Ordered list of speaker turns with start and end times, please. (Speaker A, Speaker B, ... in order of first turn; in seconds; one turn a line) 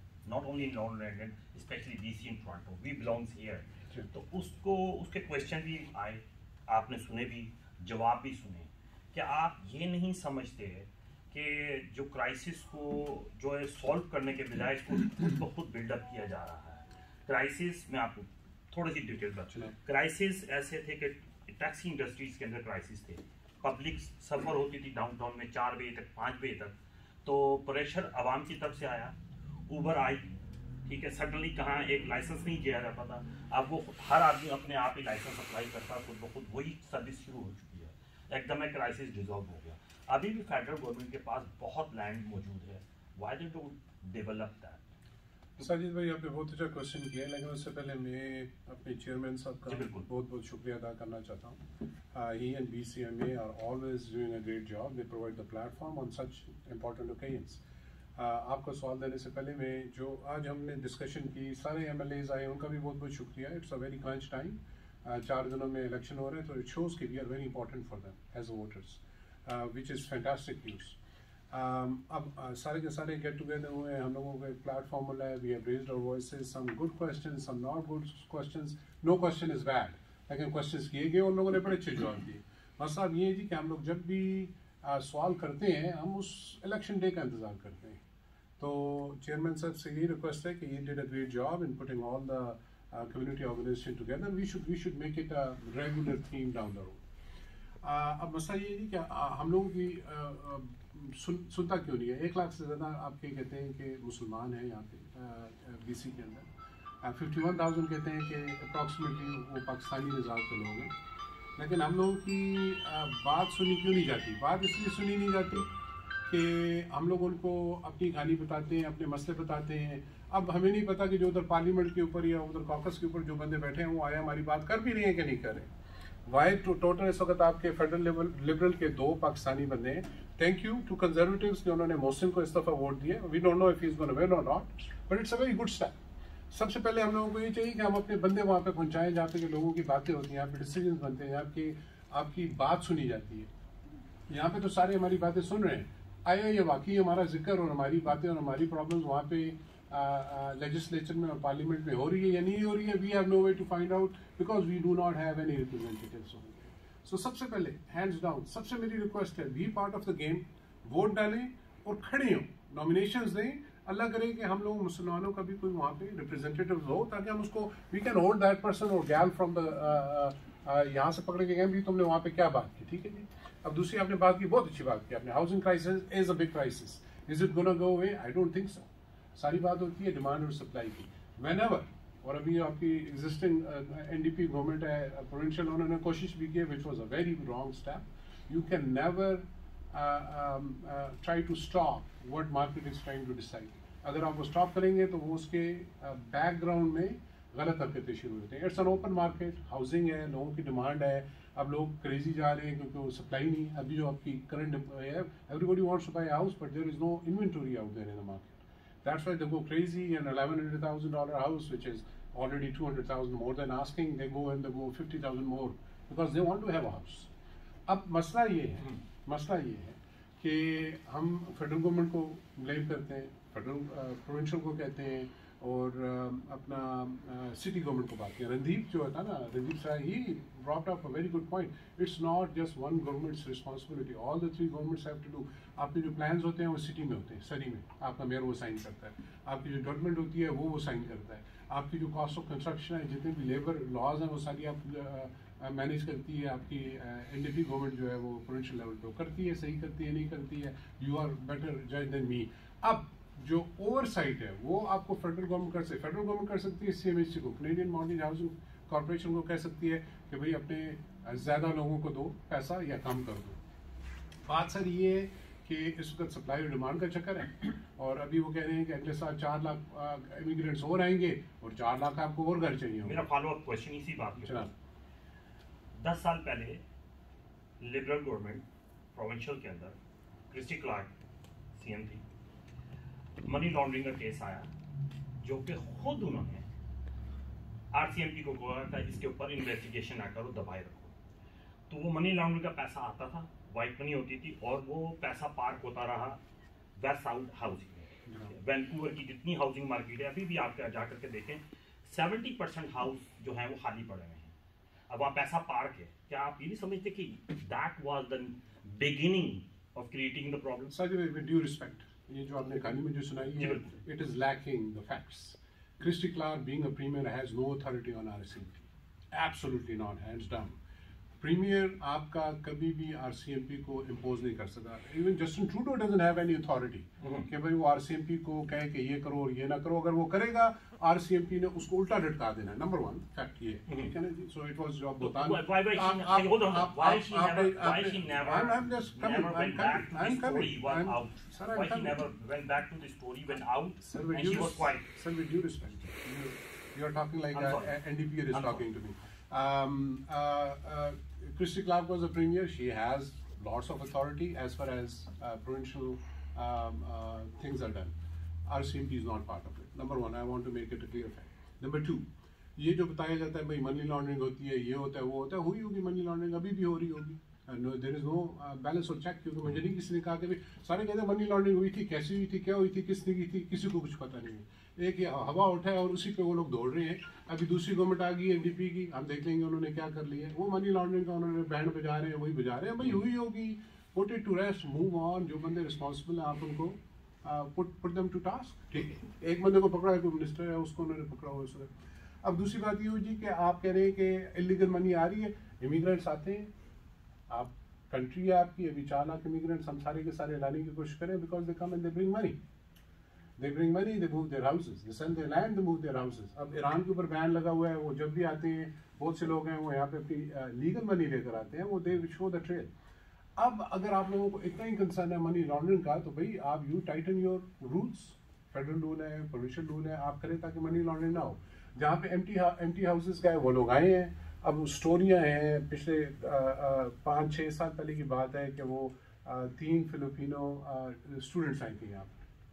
Speaker A: 0.2-29.1
Speaker A: 29.7-30.3
Speaker A: 30.8-44.8
Speaker B: 45.6-51.6
Speaker A: 49.7-50.1
Speaker B: 52.1-57.6
Speaker B: 58.1-71.0
Speaker B: 71.5-88.0
Speaker B: 88.6-97.0
Speaker B: 97.8-106.5
Speaker B: 107.0-110.9
Speaker B: 111.6-115.7
Speaker B: 116.2-125.7
Speaker B: 126.2-136.0
Speaker B: 136.5-143.5
Speaker B: 144.3-217.3
Speaker B: 217.9-263.6
Speaker B: 264.4-273.2
Speaker A: 273.0-274.7
Speaker B: 274.4-274.7
Speaker A: 275.9-276.8
Speaker A: 277.8-280.0
Speaker A: 280.5-281.1
Speaker A: 281.8-282.2
Speaker A: 283.4-284.7
Speaker A: 285.4-286.6
Speaker A: 287.9-291.1
Speaker A: 291.9-296.4
Speaker A: 297.0-304.5
Speaker B: 298.3-298.5
Speaker A: 305.1-310.9
Speaker B: 310.9-320.8
Speaker A: 313.6-314.0
Speaker B: 321.4-342.2
Speaker A: 327.2-327.5
Speaker A: 335.2-345.1
Speaker B: 344.0-391.9
Speaker A: 347.5-347.9
Speaker A: 348.5-348.8
Speaker B: 392.4-396.7
Speaker B: 397.5-402.6
Speaker B: 403.6-412.9
Speaker B: 413.6-432.4